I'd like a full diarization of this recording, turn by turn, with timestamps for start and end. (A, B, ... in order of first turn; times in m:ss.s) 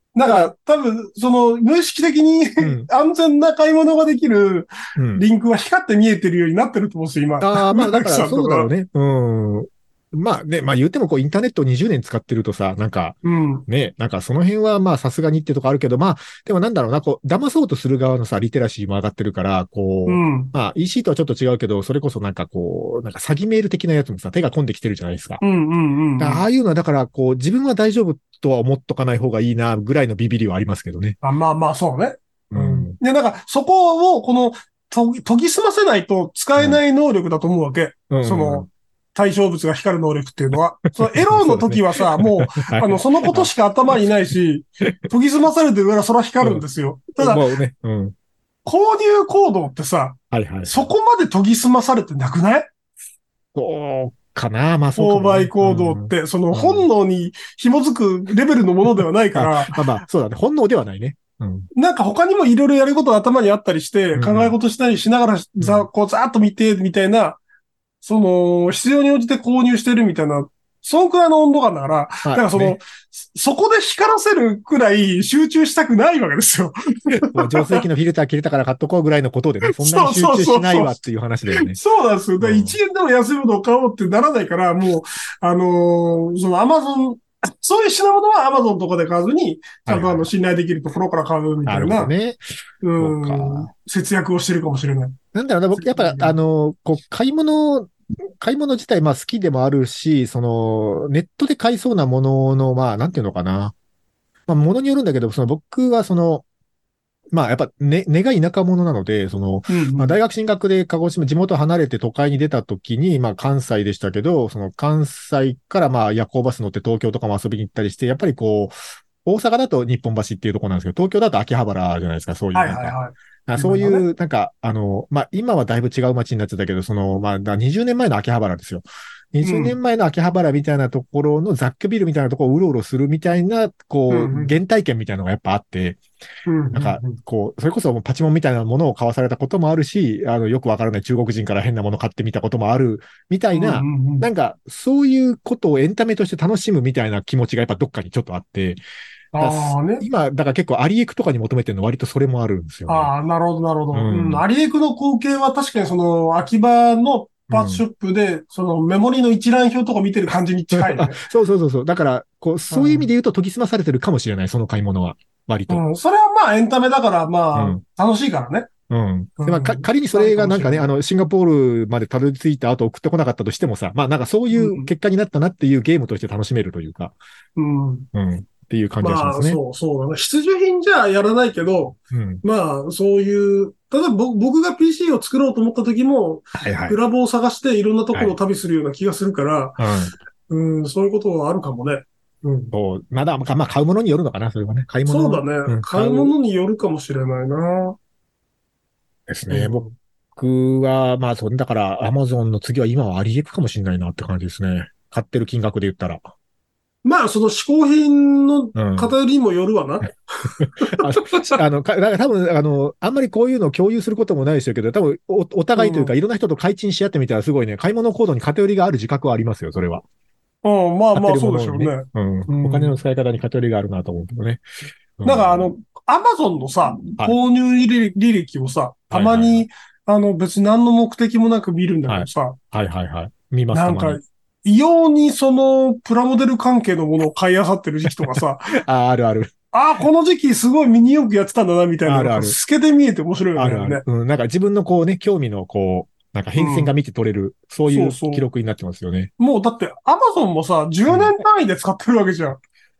0:00.2-0:08.7 A
0:00.2-0:00.5 B
0:02.6-0:02.9 B
0:05.0-0:05.2 B
0:07.4-0:25.4 B
0:13.2-0:13.6 A
0:20.1-0:20.5 A
0:25.4-0:26.5 A
0:26.2-0:31.2 B
0:31.2-0:47.4 A
0:32.5-0:33.0 B
0:38.1-0:38.7 B
0:41.1-0:43.5 B
0:47.2-0:48.2 B
0:48.6-0:52.7 A
0:50.3-0:50.9 B
0:53.6-0:56.9 B
0:55.0-0:59.8 A
0:59.3-1:01.7 B
1:01.8-1:07.4 A
1:04.2-1:04.6 B
1:05.6-1:05.9 B
1:08.0-1:17.8 A
1:12.2-1:12.8 B
1:17.2-1:21.8 B
1:19.6-1:21.0 A
1:21.5-1:32.1 A
1:22.4-1:22.8 B
1:29.9-1:30.3 B
1:31.7-1:32.4 B
1:32.8-1:35.2 A
1:33.0-1:33.7 B
1:35.3-1:43.7 B
1:35.7-1:36.4 A
1:44.5-1:46.4 B
1:47.3-2:03.0 B
1:49.7-1:50.2 A
2:02.5-2:04.1 A
2:03.5-2:16.0 B
2:09.4-2:09.8 A
2:14.1-2:14.6 A
2:16.5-2:17.2 A
2:16.7-2:28.8 B
2:23.5-2:24.3 A
2:29.3-2:30.0 A
2:29.4-2:33.1 B
2:32.9-2:41.2 A
2:33.9-2:34.4 B
2:37.5-2:37.8 B
2:40.7-2:45.8 B
2:42.7-2:43.1 A
2:45.7-2:48.7 A
2:47.6-2:47.8 B
2:48.9-2:57.2 B
2:49.4-2:50.9 A
2:54.5-2:54.9 A
2:57.6-2:58.1 A
2:58.1-2:59.6 B
2:59.0-3:09.8 A
3:02.1-3:02.4 B
3:06.6-3:07.0 B
3:09.8-3:10.1 B
3:10.5-3:12.8 A
3:12.7-3:16.4 B
3:15.1-3:18.0 A
3:19.3-3:26.2 B
3:19.5-3:19.9 A
3:27.0-3:31.6 A
3:28.8-3:29.1 B
3:30.6-3:40.0 B
3:35.8-3:36.1 A
3:40.6-3:43.0 A
3:41.1-3:44.6 B
3:45.2-3:45.7 B
3:45.2-3:52.6 A
3:49.1-3:49.7 B
3:52.1-3:54.2 B
3:53.7-3:58.8 A
3:58.3-3:59.5 B
3:59.7-4:04.0 A
4:02.0-4:02.6 B
4:03.6-4:09.3 B
4:06.6-4:06.9 A
4:07.9-4:08.5 A
4:09.4-4:12.6 A
4:11.1-4:11.3 B